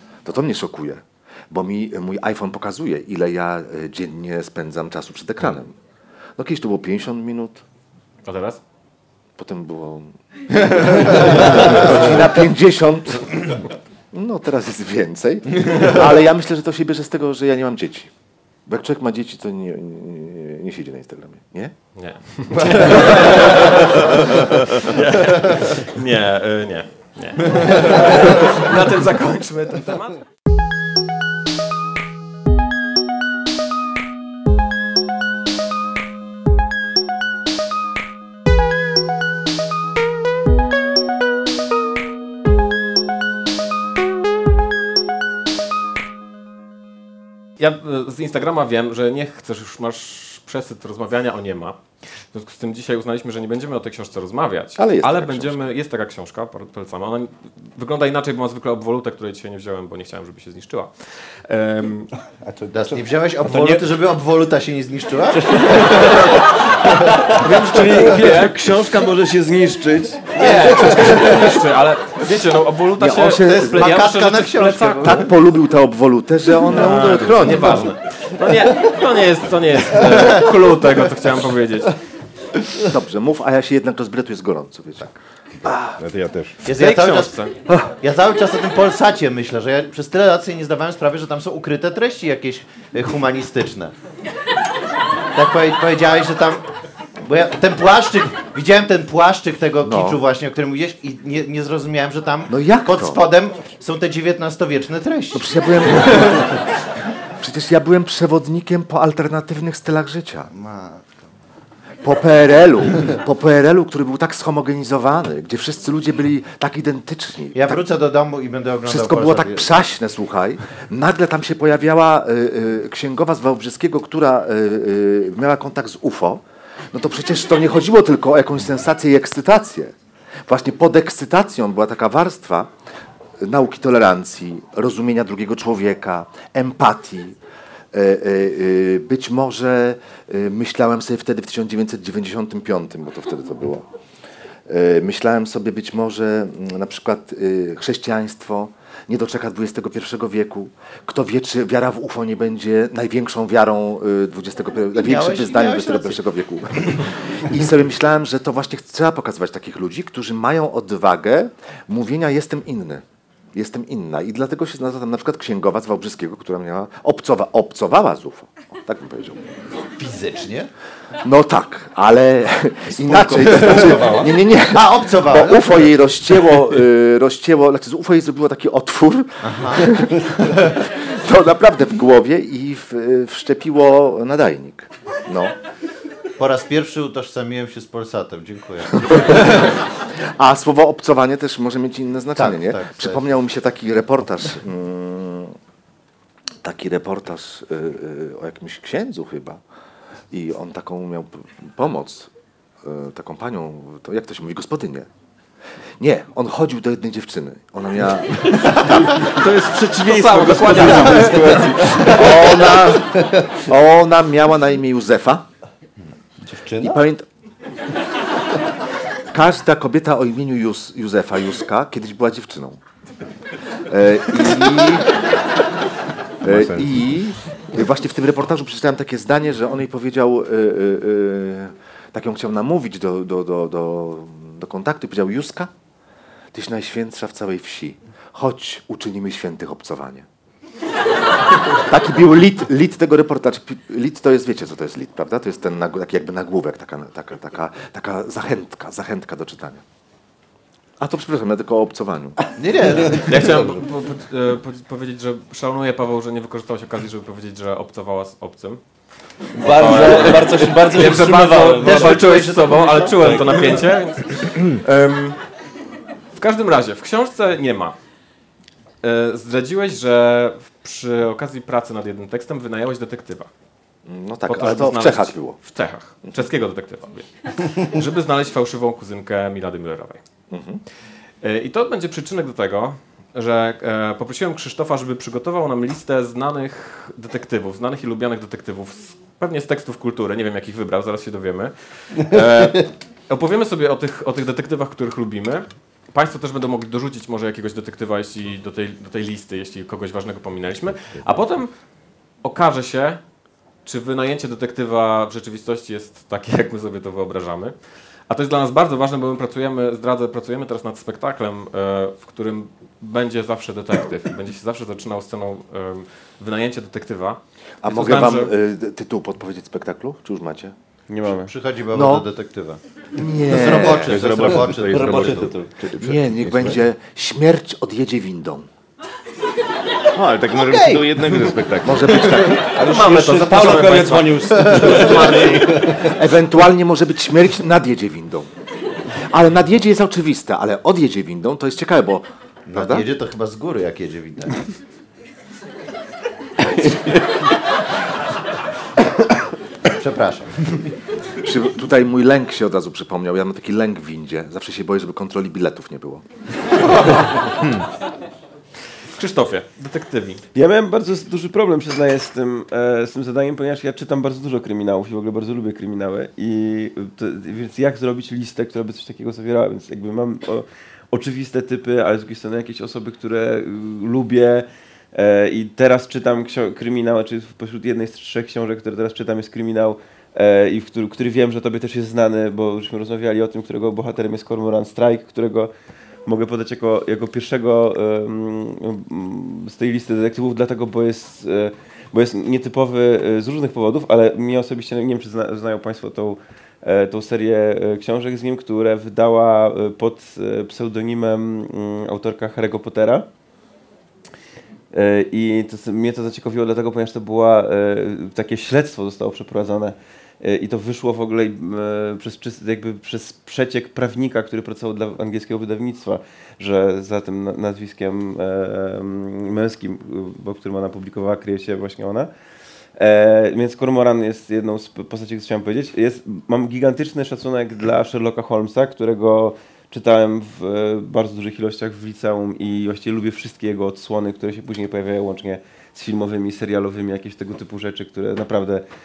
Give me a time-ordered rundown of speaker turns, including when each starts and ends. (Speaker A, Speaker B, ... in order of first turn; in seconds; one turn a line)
Speaker A: 0.2-5.8
Speaker A: 6.4-7.6
Speaker B: 8.2-8.6
Speaker A: 9.4-18.1
Speaker A: 18.7-21.7
Speaker B: 22.0-30.2
Speaker A: 22.6-23.6
Speaker B: 47.6-62.1
Speaker A: 54.8-55.6
Speaker C: 62.4-63.9
Speaker D: 62.7-66.4
Speaker C: 65.4-66.3
Speaker C: 66.9-67.1
Speaker E: 67.3-71.5
Speaker B: 67.8-68.2
Speaker B: 70.3-75.3
Speaker A: 73.0-74.0
Speaker D: 73.4-75.3
Speaker A: 75.0-78.0
Speaker B: 76.7-82.0
Speaker D: 77.6-77.9
Speaker A: 82.8-86.0
Speaker F: 86.0-86.6
Speaker D: 86.6-87.4
Speaker B: 86.7-87.5
Speaker D: 88.0-93.9
Speaker D: 95.3-96.7
Speaker D: 97.2-106.4
Speaker A: 99.8-100.2
Speaker A: 102.5-103.3
Speaker A: 105.3-106.6
Speaker A: 107.3-110.5
Speaker D: 110.5-111.2
Speaker A: 112.0-117.8
Speaker D: 117.5-119.7
Speaker A: 118.9-129.9
Speaker A: 130.5-132.7
Speaker A: 133.4-137.4
Speaker A: 137.9-143.9
Speaker A: 144.7-169.5
Speaker D: 155.0-156.2
Speaker D: 170.0-170.7
Speaker A: 171.2-185.6
Speaker C: 173.0-174.3
Speaker D: 173.4-175.9
Speaker D: 179.4-180.7
Speaker D: 186.4-189.8
Speaker A: 189.1-195.6
Speaker D: 192.4-193.2
Speaker A: 196.6-199.6
Speaker A: 200.3-205.1
Speaker A: 206.0-209.2
Speaker B: 209.1-212.0
Speaker E: 209.2-212.2
Speaker C: 210.6-212.3
Speaker A: 212.1-215.5
Speaker C: 216.4-217.0
Speaker A: 216.8-217.3
Speaker A: 219.3-222.8
Speaker A: 223.8-225.4
Speaker A: 226.4-235.7
Speaker F: 226.4-227.0
Speaker A: 236.5-240.3
Speaker A: 241.7-249.8
Speaker A: 251.0-252.4
Speaker D: 252.6-253.7
Speaker C: 252.8-253.8
Speaker B: 253.1-258.8
Speaker C: 259.6-263.8
Speaker B: 259.6-265.4
Speaker D: 261.8-263.9
Speaker B: 266.3-268.0
Speaker B: 269.0-273.5
Speaker A: 274.1-275.6
Speaker B: 274.5-280.2
Speaker A: 280.5-280.8
Speaker B: 281.4-301.7
Speaker B: 302.4-303.2
Speaker B: 303.8-318.5
Speaker A: 317.8-320.8
Speaker E: 321.1-321.5
Speaker D: 321.3-325.5
Speaker A: 321.9-322.3
Speaker A: 323.1-324.2
Speaker F: 323.8-326.8
Speaker C: 324.4-325.7
Speaker A: 326.0-328.7
Speaker F: 330.1-332.2
Speaker D: 330.6-331.4
Speaker A: 331.8-332.8
Speaker C: 332.7-336.2
Speaker B: 332.7-335.9
Speaker D: 334.6-335.3
Speaker A: 335.9-338.5
Speaker A: 339.1-343.1
Speaker D: 342.7-344.7
Speaker D: 346.6-347.0
Speaker D: 349.0-349.3
Speaker D: 349.9-350.9
Speaker A: 351.3-356.2
Speaker B: 357.1-357.3
Speaker B: 359.0-360.4
Speaker E: 360.6-385.7
Speaker E: 386.2-403.3
Speaker E: 404.9-422.3
Speaker E: 422.9-438.9